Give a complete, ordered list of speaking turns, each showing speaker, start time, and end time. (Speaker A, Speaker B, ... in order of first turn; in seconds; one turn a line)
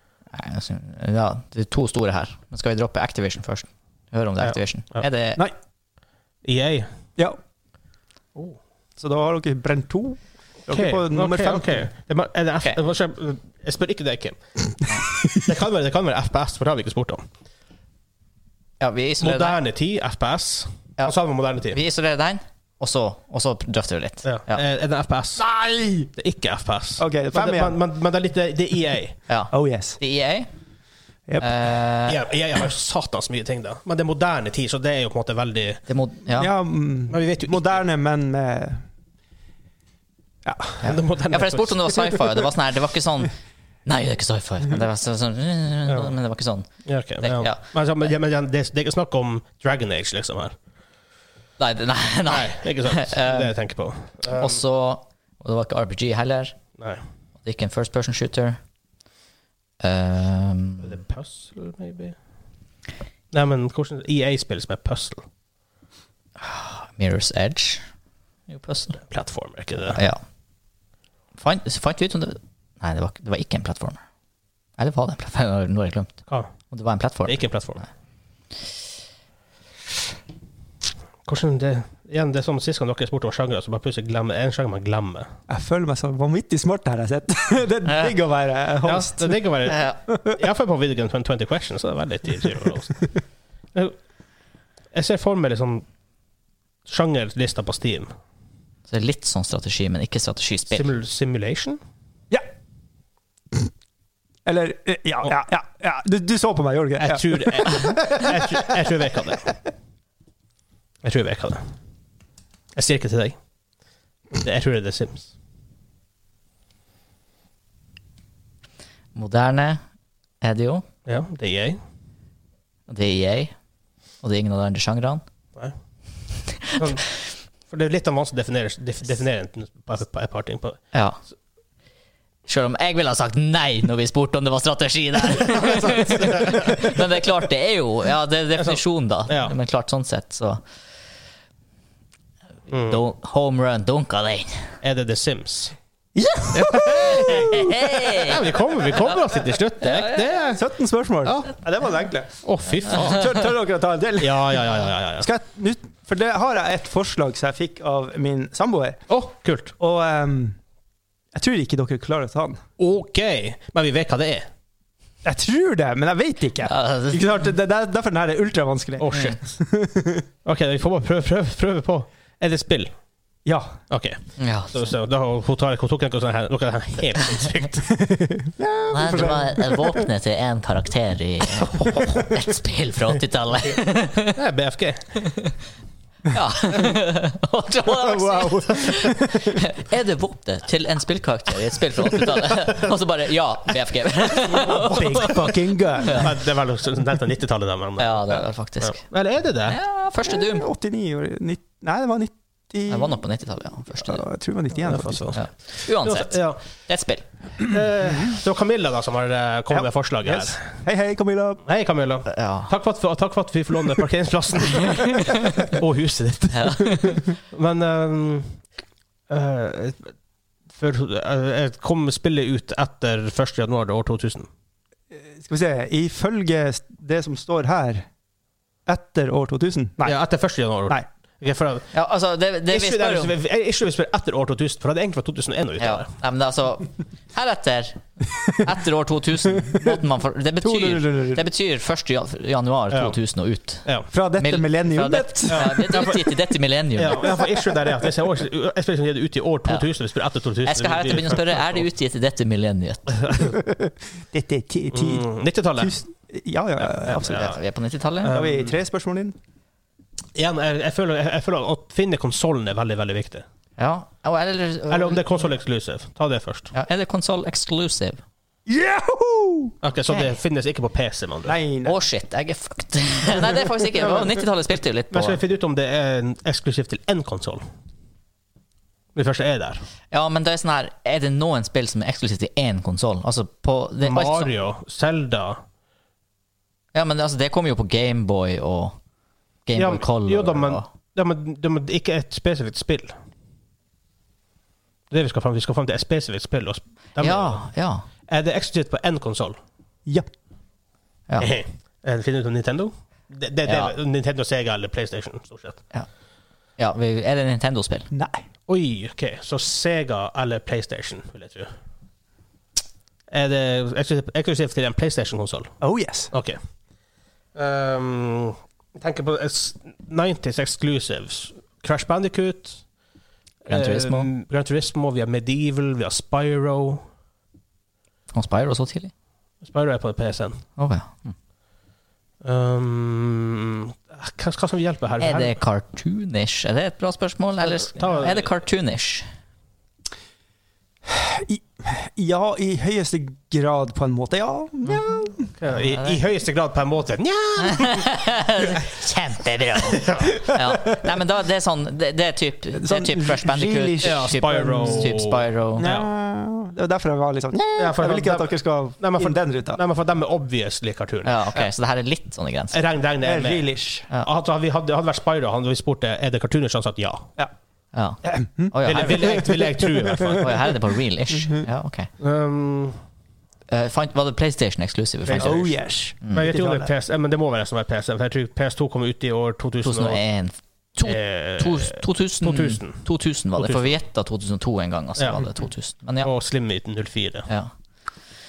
Speaker A: 0.3-5.4
Speaker B: 4.4-5.0
Speaker B: 6.4-6.9
Speaker C: 9.0-11.9
Speaker B: 10.7-14.4
Speaker B: 15.2-17.2
Speaker A: 18.8-19.6
Speaker B: 19.2-21.8
Speaker A: 21.7-24.6
Speaker B: 24.2-25.4
Speaker C: 25.4-26.1
Speaker B: 26.1-29.2
Speaker C: 27.0-27.8
Speaker A: 29.3-30.5
Speaker C: 29.5-30.0
Speaker A: 31.4-32.2
Speaker B: 32.1-35.8
Speaker A: 35.9-36.5
Speaker C: 36.3-38.9
Speaker B: 37.1-37.8
Speaker C: 40.4-40.9
Speaker B: 40.8-42.1
Speaker A: 40.8-46.7
Speaker B: 45.9-46.1
Speaker B: 46.8-50.5
Speaker A: 47.2-47.6
Speaker A: 51.6-53.5
Speaker B: 52.2-54.6
Speaker A: 54.3-56.6
Speaker A: 57.4-58.6
Speaker A: 59.8-61.0
Speaker B: 60.8-62.1
Speaker B: 63.3-65.2
Speaker A: 66.4-67.9
Speaker A: 68.5-69.0
Speaker B: 69.0-70.0
Speaker A: 69.9-70.2
Speaker A: 71.4-74.0
Speaker A: 74.8-76.2
Speaker A: 76.7-77.8
Speaker B: 77.2-77.8
Speaker B: 81.2-85.3
Speaker C: 85.5-89.4
Speaker A: 87.9-88.1
Speaker B: 88.8-93.1
Speaker A: 89.7-90.0
Speaker C: 90.1-90.3
Speaker B: 94.9-95.8
Speaker B: 96.8-98.1
Speaker A: 98.9-100.8
Speaker B: 100.7-101.8
Speaker C: 104.4-108.9
Speaker B: 107.0-109.5
Speaker B: 111.0-111.7
Speaker B: 112.7-113.4
Speaker B: 114.3-115.3
Speaker A: 119.1-119.8
Speaker A: 120.4-120.9
Speaker B: 121.0-121.8
Speaker A: 122.9-123.5
Speaker A: 124.2-125.2
Speaker A: 126.5-126.8
Speaker B: 126.7-130.8
Speaker A: 130.9-131.2
Speaker A: 132.5-140.6
Speaker C: 136.0-136.3
Speaker B: 138.6-139.5
Speaker B: 142.7-143.0
Speaker A: 142.8-144.7
Speaker B: 144.8-145.7
Speaker C: 146.1-148.4
Speaker B: 146.5-147.6
Speaker A: 147.0-148.4
Speaker B: 148.2-150.6
Speaker A: 149.8-150.2
Speaker C: 150.5-159.0
Speaker B: 151.2-151.5
Speaker B: 152.4-153.5
Speaker B: 154.2-155.3
Speaker B: 159.1-159.7
Speaker C: 159.8-160.6
Speaker C: 161.3-162.6
Speaker B: 162.8-164.5
Speaker C: 165.2-170.3
Speaker A: 166.6-167.3
Speaker B: 169.0-169.4
Speaker A: 169.1-169.4
Speaker B: 170.4-172.9
Speaker C: 173.4-173.8
Speaker B: 173.9-174.2
Speaker A: 174.4-174.9
Speaker B: 174.7-177.9
Speaker C: 177.9-180.1
Speaker A: 178.9-184.4
Speaker C: 181.9-182.2
Speaker B: 184.3-185.1
Speaker A: 185.2-185.5
Speaker A: 186.3-195.5
Speaker C: 187.9-189.6
Speaker C: 194.5-196.3
Speaker B: 194.6-195.4
Speaker A: 196.0-196.3
Speaker B: 196.1-199.8
Speaker A: 198.0-199.0
Speaker A: 199.7-200.7
Speaker C: 200.2-203.2
Speaker A: 202.9-204.2
Speaker C: 203.9-205.3
Speaker B: 204.8-206.6
Speaker A: 205.3-207.2
Speaker B: 207.6-210.6
Speaker C: 209.7-211.6
Speaker B: 211.7-218.6
Speaker A: 212.3-212.7
Speaker A: 214.9-215.5
Speaker A: 216.5-217.2
Speaker B: 219.3-220.1
Speaker B: 220.7-224.5
Speaker C: 225.1-228.1
Speaker C: 228.8-230.2
Speaker B: 230.0-231.9
Speaker A: 231.9-233.3
Speaker B: 232.7-236.1
Speaker A: 235.8-247.3
Speaker C: 239.7-240.0
Speaker C: 240.6-241.4
Speaker B: 242.9-243.2
Speaker C: 244.1-245.8
Speaker B: 245.5-246.3
Speaker B: 247.0-251.8
Speaker A: 250.6-253.3
Speaker C: 253.3-257.5
Speaker B: 254.9-255.9
Speaker B: 256.8-257.6
Speaker A: 257.3-258.3
Speaker B: 258.2-258.7
Speaker C: 258.2-259.3
Speaker B: 260.3-263.4
Speaker A: 263.8-265.4
Speaker B: 264.9-266.7
Speaker A: 266.7-268.2
Speaker C: 268.6-269.8
Speaker B: 269.8-271.6
Speaker A: 270.1-270.4
Speaker C: 271.4-272.0
Speaker A: 271.8-275.4
Speaker B: 275.1-277.6
Speaker B: 279.1-279.8
Speaker A: 280.1-284.5
Speaker B: 284.0-285.6
Speaker A: 286.9-288.9
Speaker A: 289.6-290.9
Speaker B: 289.7-293.1
Speaker B: 295.1-297.6
Speaker A: 297.2-298.1
Speaker B: 298.3-299.6
Speaker B: 301.4-305.8
Speaker A: 303.6-303.9
Speaker A: 306.8-308.1
Speaker C: 308.1-308.4
Speaker B: 308.7-311.7
Speaker B: 313.3-315.7
Speaker C: 315.8-316.3
Speaker B: 316.3-316.6
Speaker B: 317.5-322.8
Speaker B: 323.6-327.0
Speaker A: 323.7-324.3
Speaker A: 328.3-329.1
Speaker B: 329.6-330.6
Speaker A: 330.8-331.3
Speaker B: 332.4-335.6
Speaker A: 335.2-339.2
Speaker B: 337.7-338.5
Speaker C: 341.0-345.5
Speaker A: 344.9-345.2
Speaker B: 345.6-348.1
Speaker A: 345.7-346.2
Speaker A: 347.6-355.9
Speaker B: 349.8-350.4
Speaker C: 352.7-355.1
Speaker B: 354.0-356.1
Speaker C: 355.8-359.8
Speaker B: 357.8-361.6
Speaker A: 361.2-362.8
Speaker B: 362.7-367.3
Speaker C: 363.2-364.1
Speaker A: 367.9-369.4
Speaker C: 368.2-370.6
Speaker B: 368.8-370.7
Speaker A: 370.3-372.1
Speaker B: 372.2-373.0
Speaker A: 373.7-375.7
Speaker C: 375.3-376.9
Speaker B: 375.3-375.7
Speaker A: 376.2-376.5
Speaker B: 376.3-380.2
Speaker A: 379.8-386.3
Speaker B: 381.0-384.0
Speaker B: 385.2-385.5
Speaker B: 386.2-387.5
Speaker A: 387.5-387.7